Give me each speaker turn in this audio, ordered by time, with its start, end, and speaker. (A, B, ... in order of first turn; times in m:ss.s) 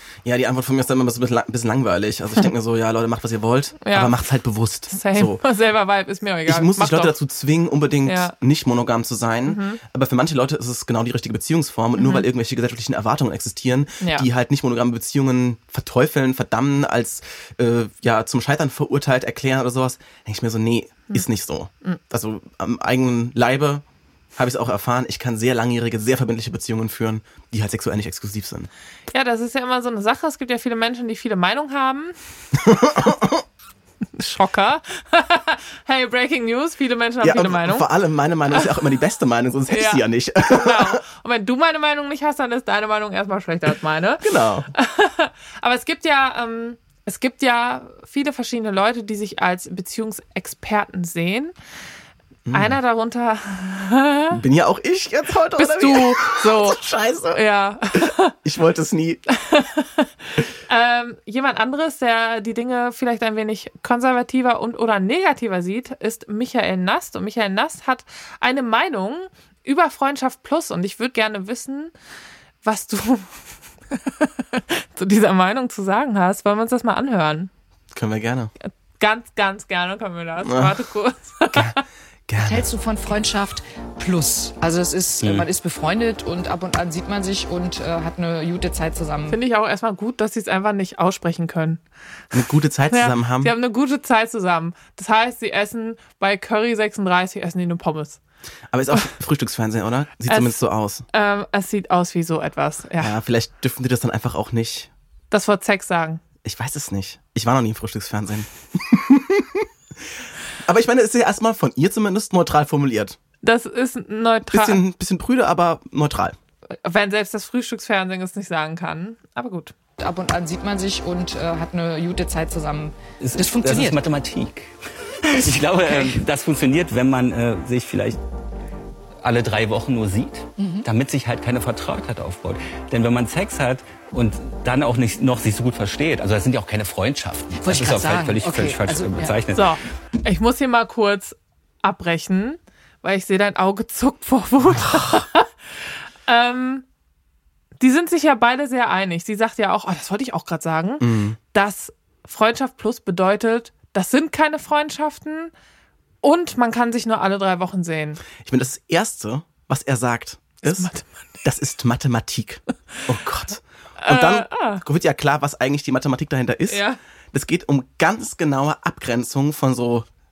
0:00.2-0:05.4 A
0:03.8-0:04.1 B
0:04.9-0:07.2 B
0:06.5-0:23.8 A
0:08.1-0:08.3 B
0:09.5-0:09.8 B
0:12.0-0:12.3 B
0:14.0-0:14.3 B
0:24.4-0:28.7 A
0:29.1-0:32.2 B
0:32.6-0:33.4 A
0:34.1-0:37.9 B
0:37.2-0:41.0 A
0:39.7-0:51.5 B
0:44.2-0:44.7 A
0:52.5-0:52.8 A
0:52.5-0:54.4 B
0:54.3-0:57.4 A
0:55.6-0:58.3 B
0:57.9-0:59.2 A
0:59.3-1:11.9 B
1:12.6-1:17.5 B
1:17.9-1:18.5 A
1:19.0-1:21.8 B
1:20.4-1:20.7 A
1:22.3-1:22.7 A
1:22.4-1:29.4 C
1:25.2-1:25.5 D
1:29.3-1:31.8 B
1:32.3-1:33.5 A
1:32.9-1:38.2 B
1:38.7-1:41.0 A
1:40.3-1:43.2 B
1:43.0-1:44.9 A
1:45.3-1:46.2 B
1:46.4-1:49.7 A
1:50.6-1:53.2 A
1:53.4-1:54.8 B
1:54.5-1:56.4 A
1:56.7-1:59.7 B
2:00.0-2:04.0 C
2:03.2-2:08.2 D
2:05.9-2:06.2 C
2:09.2-2:19.8 D
2:10.6-2:10.9 C
2:17.6-2:19.4 C
2:19.6-2:26.8 B
2:27.8-2:35.5 B
2:31.0-2:31.4 A
2:36.2-2:38.2 B
2:38.4-2:40.9 A
2:40.6-2:41.1 B
2:41.4-2:50.1 A
2:44.0-2:44.8 B
2:46.7-2:47.0 B